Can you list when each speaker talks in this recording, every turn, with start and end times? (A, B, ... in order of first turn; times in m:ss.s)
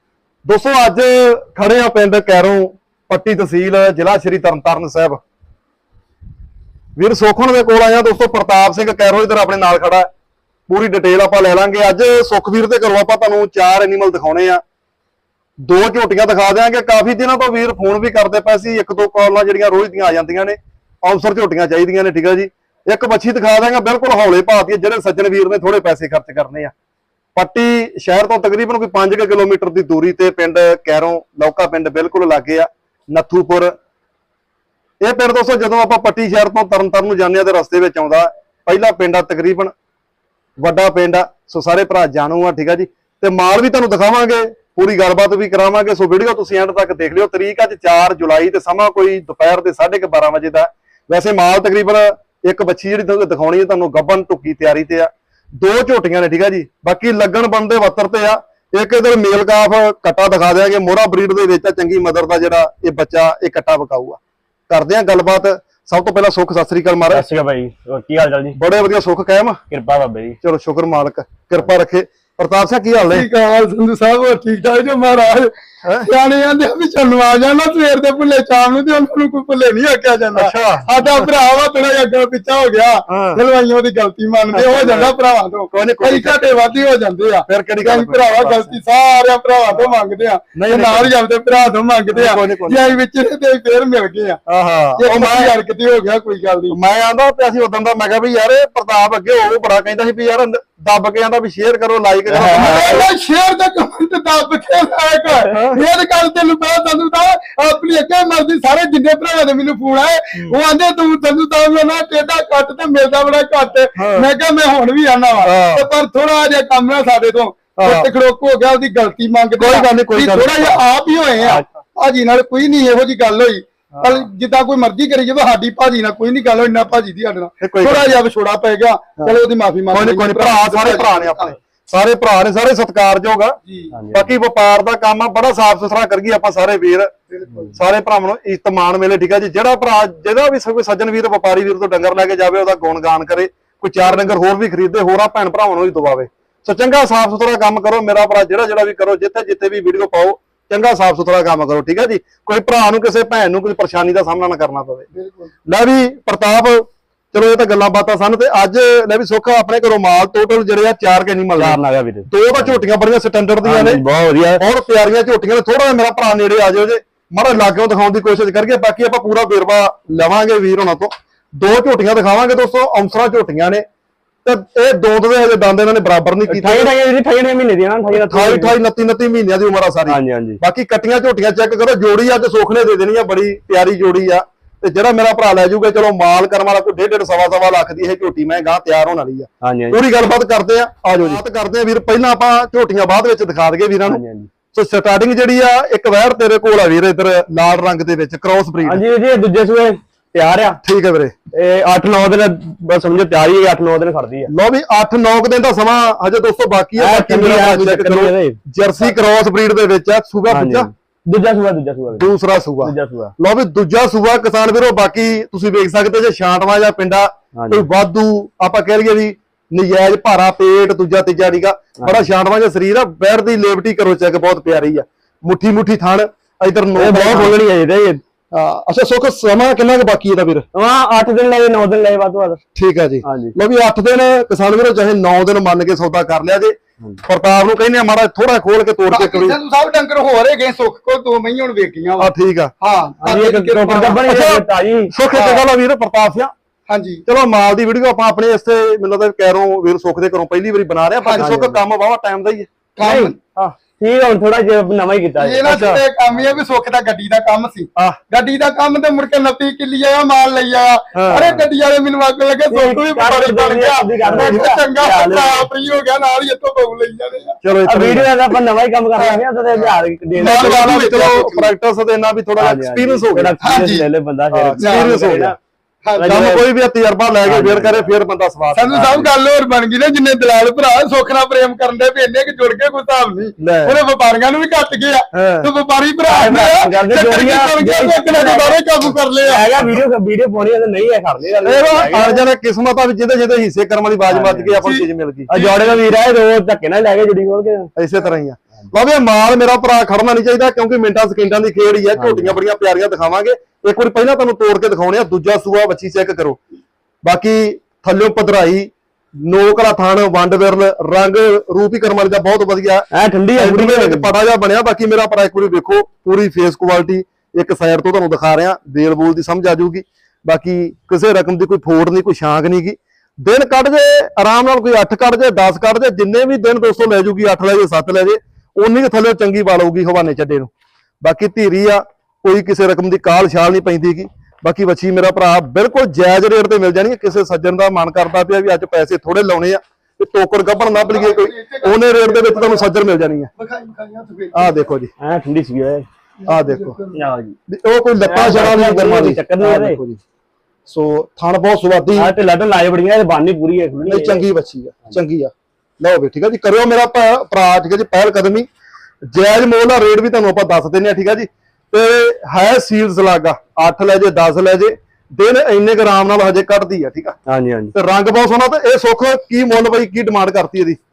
0:00.4-0:05.2 A
0:07.0-0:10.1 A
0:10.7-0:14.6 A
0:15.6-0:26.7 A
0:27.3-0:33.7 A
0:35.0-0:39.7 A
0:40.6-1:07.2 A
1:07.1-1:08.6 B
1:08.5-1:09.6 A
1:09.7-1:10.4 B
1:10.4-1:13.3 A
1:13.1-1:34.4 C
1:15.8-1:16.1 A
1:20.3-1:21.2 A
1:23.1-1:23.4 A
1:24.5-1:25.1 A
1:25.7-1:26.4 A
1:27.5-1:28.8 A
1:30.5-1:31.1 A
1:32.1-1:32.9 A
1:34.5-1:35.5 A
1:35.0-1:36.8 C
1:36.7-1:43.0 A
1:42.2-1:43.0 B
1:42.5-2:11.5 C
1:45.5-1:45.8 A
1:54.0-1:54.3 A
1:55.4-1:55.9 A
1:57.8-1:58.1 A
1:59.6-2:00.8 A
2:07.6-2:08.2 A
2:09.9-2:13.6 A
2:13.6-2:13.9 C
2:13.9-2:14.3 B
2:14.1-2:17.1 A
2:17.3-2:17.7 C
2:17.7-2:35.0 A
2:35.1-2:35.5 C
2:35.7-2:44.0 A
2:41.6-2:42.8 B
2:43.6-2:44.6 B
2:44.6-2:53.8 A
2:54.4-2:56.9 A
2:56.5-2:58.7 B
2:58.1-3:19.0 A
3:00.1-3:00.6 B
3:09.6-3:10.0 B
3:14.0-3:14.5 B
3:18.8-3:20.8 B
3:20.8-3:21.3 A
3:21.5-3:24.5 B
3:24.5-3:30.9 A
3:27.0-3:28.6 B
3:30.5-3:32.3 B
3:32.1-3:47.6 A
3:32.8-3:33.3 B
3:37.5-3:37.8 B
3:46.9-3:48.2 B
3:48.5-3:50.6 A
3:50.7-3:52.6 B
3:52.7-3:59.6 A
3:53.2-3:53.5 B
3:59.0-4:04.3 C
4:02.2-4:02.7 A
4:03.2-4:05.1 B
4:04.3-4:06.5 A
4:05.3-4:05.6 C
4:06.9-4:07.2 C
4:07.2-4:12.7 A
4:11.2-4:11.6 C
4:11.4-4:11.8 B
4:13.0-4:13.4 C
4:13.0-4:13.3 B
4:14.0-4:15.8 B
4:15.4-4:27.6 C
4:15.6-4:16.0 A
4:21.1-4:21.6 A
4:22.7-4:25.7 B
4:27.6-4:28.3 A
4:27.8-4:31.3 B
4:30.3-4:31.7 C
4:30.4-4:33.6 A
4:32.6-4:35.6 B
4:33.6-4:34.1 C
4:34.5-4:35.5 A
4:34.8-4:35.2 C
4:36.0-4:36.4 C
4:36.2-4:36.6 B
4:36.2-4:39.2 A
4:37.4-4:38.1 B
4:38.7-4:49.7 C
4:38.9-4:39.3 B
4:43.6-4:44.0 A
4:45.3-4:45.7 A
4:46.3-4:48.8 B
4:49.4-4:52.4 B
4:51.6-4:55.5 A
4:54.3-4:54.8 B
4:54.8-4:56.0 C
4:55.5-4:57.9 B
4:58.0-5:06.6 A
5:02.2-5:02.6 B
5:07.2-5:30.7 A
5:13.1-5:14.3 B
5:31.2-5:43.5 A
5:40.9-5:42.9 C
5:43.6-5:44.8 C
5:44.5-5:45.1 A
5:45.2-5:46.0 B
5:46.4-5:47.2 C
5:46.5-5:47.0 A
5:47.1-5:47.5 B
5:47.7-5:50.2 A
5:48.2-5:50.0 B
5:50.9-5:52.3 A
5:52.2-5:54.4 B
5:54.1-5:58.7 A
5:59.3-6:07.4 A
6:07.5-6:07.9 B
6:07.9-6:11.0 A